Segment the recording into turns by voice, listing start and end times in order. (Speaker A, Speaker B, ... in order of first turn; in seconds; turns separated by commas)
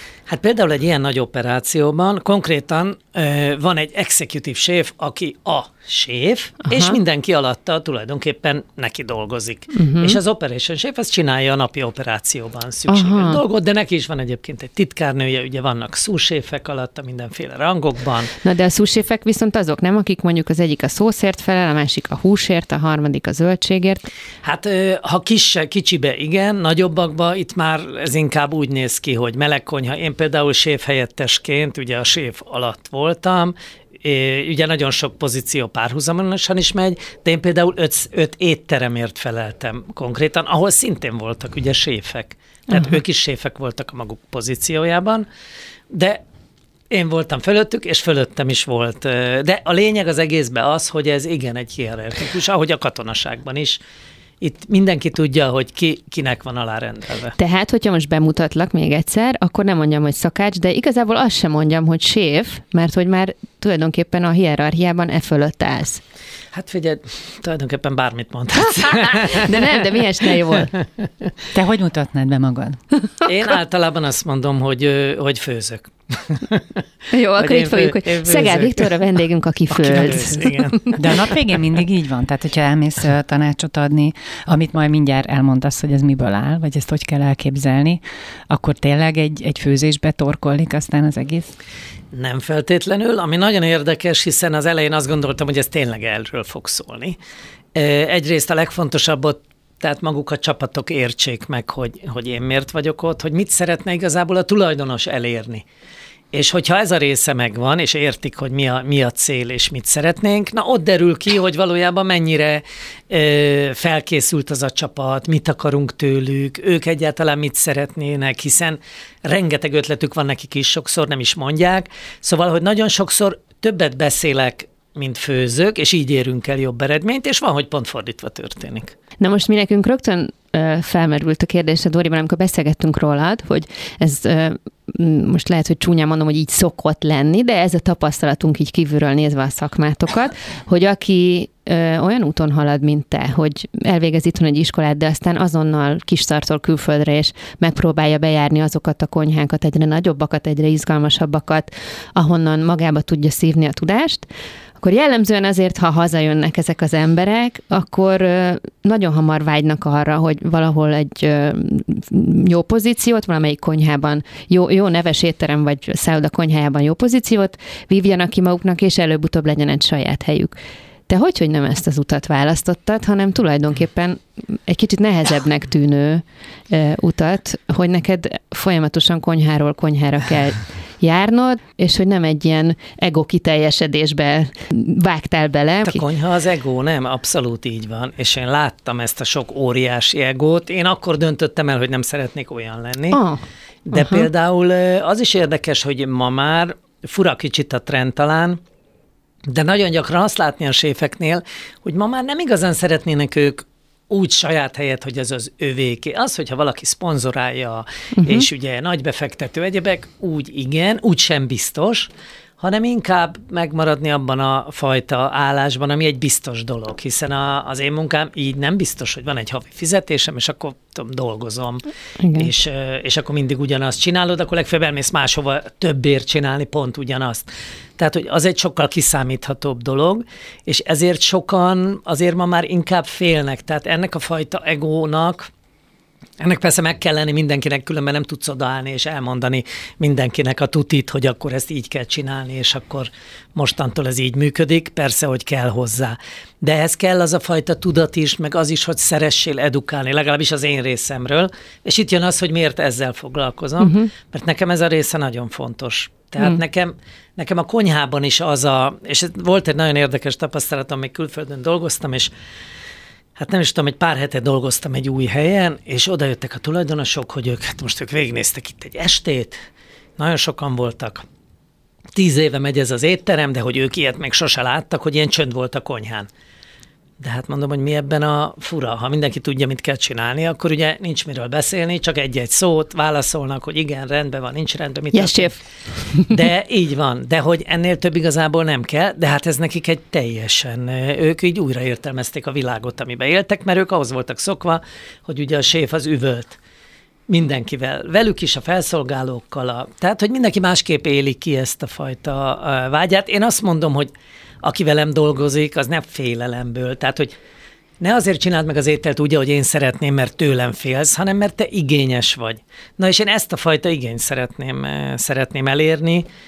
Speaker A: 0.3-18.3, Speaker B: 6.7-7.0, Speaker B: 9.8-10.2, Speaker B: 12.9-13.4, Speaker B: 18.4-24.1, Speaker A: 24.4-45.3, Speaker B: 42.7-43.0, Speaker A: 45.9-46.2, Speaker A: 46.9-53.8, Speaker A: 54.4-57.4, Speaker B: 57.4-66.0, Speaker A: 66.5-69.8, Speaker B: 69.2-70.7, Speaker C: 71.5-72.8, Speaker A: 73.3-76.8, Speaker B: 77.1-81.0, Speaker A: 77.3-78.9, Speaker A: 79.7-81.0, Speaker C: 81.0-91.5, Speaker A: 92.1-97.2, Speaker A: 97.8-105.6, Speaker A: 106.3-128.9, Speaker B: 129.2-154.3, Speaker B: 154.8-170.6, Speaker B: 171.1-186.0, Speaker A: 185.8-193.2, Speaker B: 193.1-193.4, Speaker A: 193.9-198.6, Speaker B: 193.9-194.3, Speaker A: 199.5-235.5, Speaker B: 208.2-208.5, Speaker B: 222.2-222.5, Speaker A: 236.4-262.3, Speaker B: 253.8-254.1, Speaker A: 263.4-269.6, Speaker A: 270.2-271.2, Speaker A: 272.1-276.3, Speaker A: 277.2-285.5, Speaker B: 285.1-286.4, Speaker A: 286.3-296.6, Speaker A: 297.3-304.1, Speaker A: 304.6-307.3, Speaker A: 308.0-316.3